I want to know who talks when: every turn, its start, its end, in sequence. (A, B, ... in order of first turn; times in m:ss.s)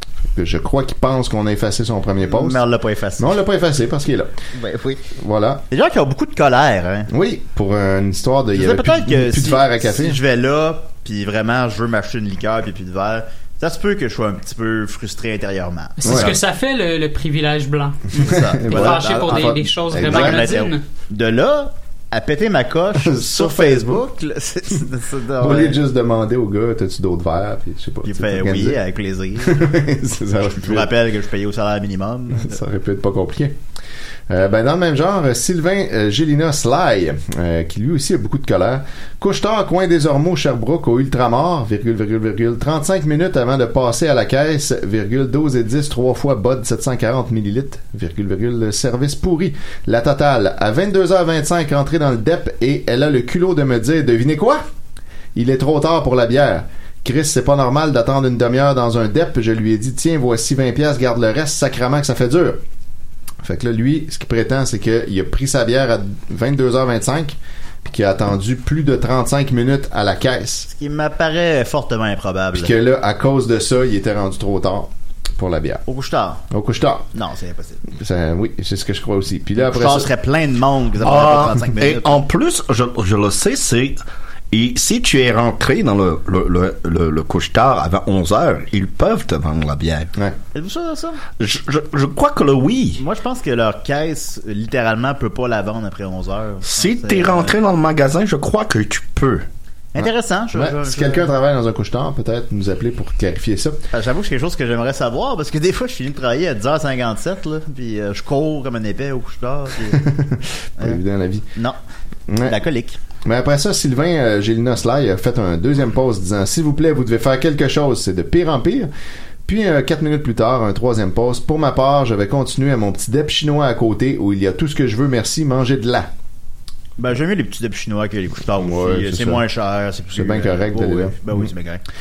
0:00.3-0:02.6 A
0:02.2-0:03.3 B
0:03.2-0:04.3 A
0:04.5-0:05.0 B
0:05.2-0:05.6 A
0:05.7-0:07.1 B
0:07.1-0:10.2 A
0:08.5-0:16.4 B
0:16.0-0:18.2 C
0:16.0-0:16.3 A
0:18.2-0:25.8 B
0:18.2-0:20.5 A
0:18.7-0:20.8 C
0:23.0-0:24.0 A
0:25.4-0:28.8 A
0:28.0-0:29.6 B
0:29.4-0:30.9 A
0:30.4-0:32.6 B
0:32.3-0:33.6 A
0:34.3-0:54.6 A
0:55.4-1:02.6 A
1:03.4-1:10.7 A
1:10.7-1:12.7 B
1:12.5-1:15.8 A
1:15.9-1:16.4 B
1:16.5-1:17.1 A
1:17.1-1:17.8 B
1:17.9-1:20.1 A
1:19.6-1:22.2 B
1:21.0-1:24.0 D
1:24.5-1:30.1 D
1:30.5-1:31.2 B
1:31.4-1:33.0 D
1:33.0-1:37.5 B
1:36.7-1:39.5 D
1:39.9-1:41.3 B
1:40.0-1:43.8 A
1:43.9-1:50.0 B
1:49.9-1:51.5 A
1:52.3-1:52.6 A
1:52.4-1:53.0 B
1:53.2-1:58.9 A
1:59.4-2:06.1 A
2:07.0-2:11.8 B
2:08.6-2:09.4 A
2:10.2-2:11.5 A